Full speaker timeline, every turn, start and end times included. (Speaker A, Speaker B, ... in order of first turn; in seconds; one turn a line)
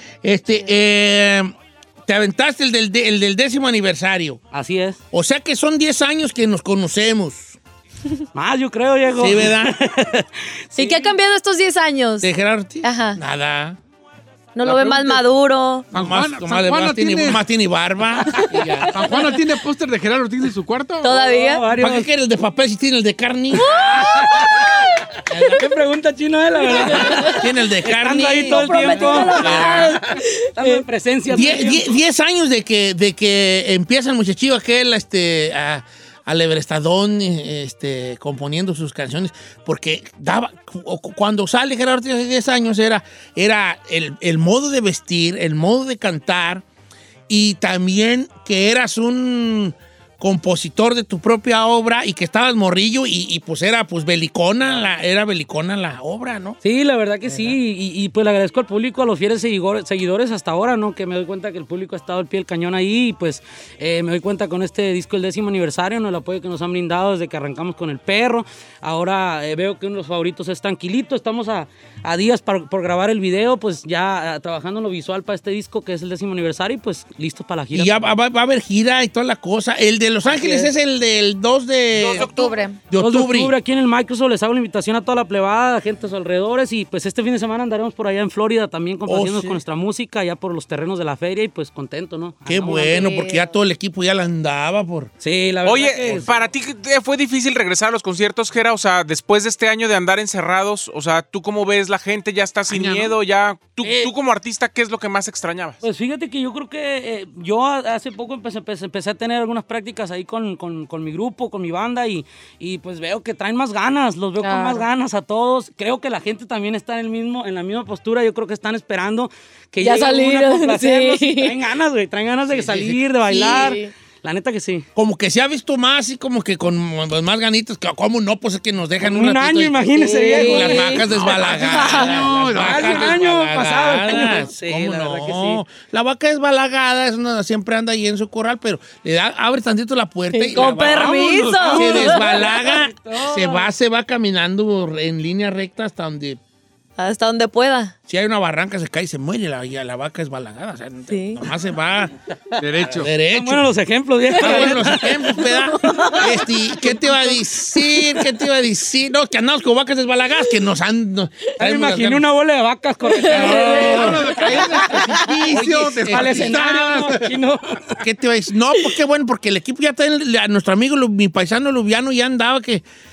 Speaker A: 0.2-1.5
Speaker A: 2.0-4.4
Speaker B: 4.5-5.0
Speaker A: 5.1-7.6
Speaker B: 8.3-11.1
Speaker A: 9.2-9.8
Speaker C: 10.8-12.3
Speaker A: 12.2-13.8
Speaker C: 12.8-13.2
Speaker C: 14.6-15.9
Speaker D: 14.7-15.1
Speaker D: 15.9-17.4
Speaker A: 15.9-19.1
Speaker C: 18.3-19.2
Speaker D: 18.9-21.1
Speaker C: 21.0-21.6
Speaker B: 21.0-22.1
Speaker A: 21.7-23.8
Speaker C: 23.5-24.9
Speaker B: 23.7-24.8
Speaker A: 25.3-25.7
Speaker B: 25.4-31.9
Speaker C: 26.6-27.5
Speaker A: 27.0-30.0
Speaker C: 28.1-30.8
Speaker A: 31.3-46.6
Speaker A: 47.3-56.6
Speaker B: 56.6-78.0
Speaker A: 57.2-57.5
Speaker A: 77.7-82.3
Speaker B: 80.2-80.7
Speaker E: 81.9-82.6
Speaker C: 82.1-82.8
Speaker A: 82.9-83.5
Speaker B: 83.0-93.1
Speaker A: 89.0-89.6
Speaker A: 92.5-95.1
Speaker C: 92.9-93.5
Speaker B: 95.2-96.3
Speaker E: 95.6-105.8
Speaker D: 102.7-103.2
Speaker B: 103.8-104.1
Speaker B: 105.8-124.9
Speaker C: 114.4-114.8
Speaker C: 119.8-121.5
Speaker A: 122.5-123.0
Speaker C: 123.2-123.9
Speaker A: 125.0-146.4
Speaker B: 129.0-135.6
Speaker C: 130.0-131.0
Speaker D: 131.0-133.2
Speaker C: 131.6-132.2
Speaker C: 140.3-142.7
Speaker B: 140.6-140.8
Speaker D: 140.8-142.3
Speaker B: 141.6-143.7
Speaker C: 147.0-147.9
Speaker A: 148.1-152.1
Speaker C: 151.1-151.4
Speaker D: 152.6-153.1
Speaker A: 152.8-153.7
Speaker B: 153.3-155.2
Speaker C: 154.3-157.1
Speaker A: 154.3-162.3
Speaker C: 157.8-158.2
Speaker B: 161.6-164.4
Speaker C: 163.1-165.1
Speaker A: 163.2-164.4
Speaker D: 163.3-167.3
Speaker A: 165.1-167.1
Speaker B: 166.1-168.0
Speaker A: 168.0-172.8